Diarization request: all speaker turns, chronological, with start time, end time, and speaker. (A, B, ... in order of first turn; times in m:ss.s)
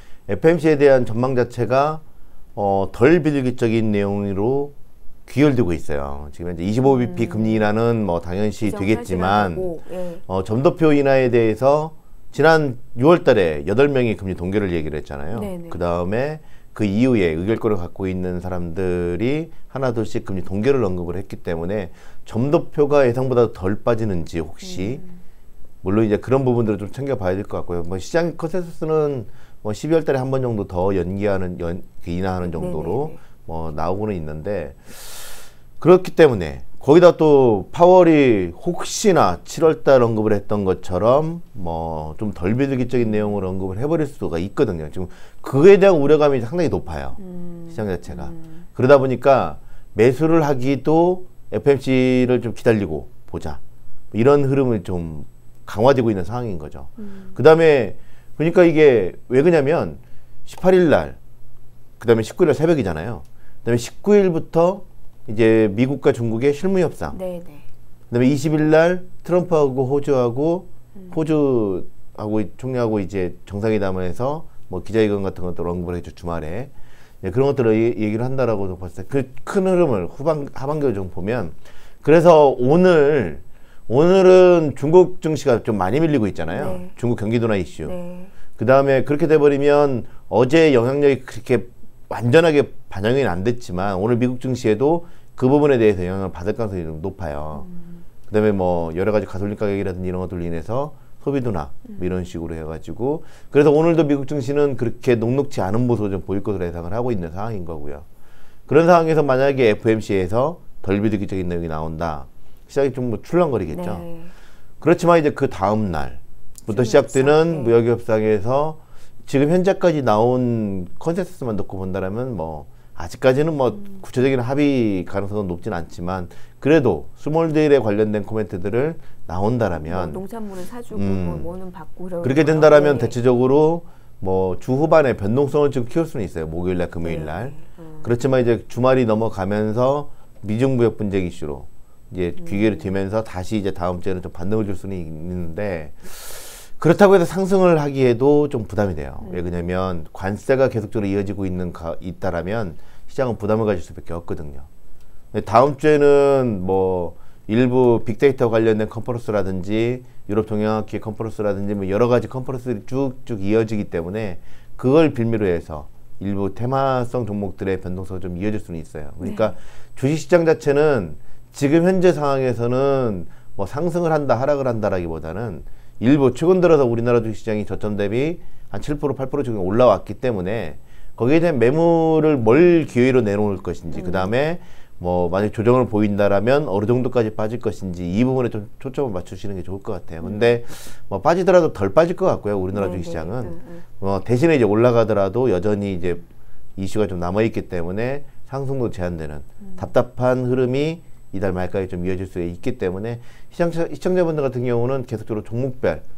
0:00.3-0:02.0 A
0:02.6-0:04.7 A
0:05.2-0:09.7 A
0:06.8-0:07.7 B
0:08.6-0:10.2 B
0:10.3-0:25.0 A
0:15.3-0:15.8 B
0:24.6-0:25.2 B
0:25.8-0:47.2 A
0:32.4-0:33.2 B
0:47.2-0:48.6 B
0:47.7-0:53.6 A
0:54.1-1:01.2 A
0:57.0-0:57.4 B
1:02.0-1:07.2 A
1:07.1-1:07.6 B
1:08.1-1:27.9 A
1:26.5-1:26.9 B
1:27.8-1:28.3 B
1:28.6-1:37.7 A
1:37.6-1:38.0 B
1:38.3-1:48.0 A
1:48.7-1:54.1 A
1:53.7-1:54.3 B
1:54.8-2:10.2 A
1:56.7-1:57.8 B
2:09.8-2:13.2 B
2:10.9-2:11.5 A
2:12.2-2:34.7 A
2:17.0-2:18.1 B
2:22.4-2:22.9 B
2:35.3-3:16.2 A
2:49.2-2:49.5 B
3:03.9-3:04.3 B
3:10.2-3:10.5 B
3:12.7-3:13.8 B
3:16.8-3:26.0 A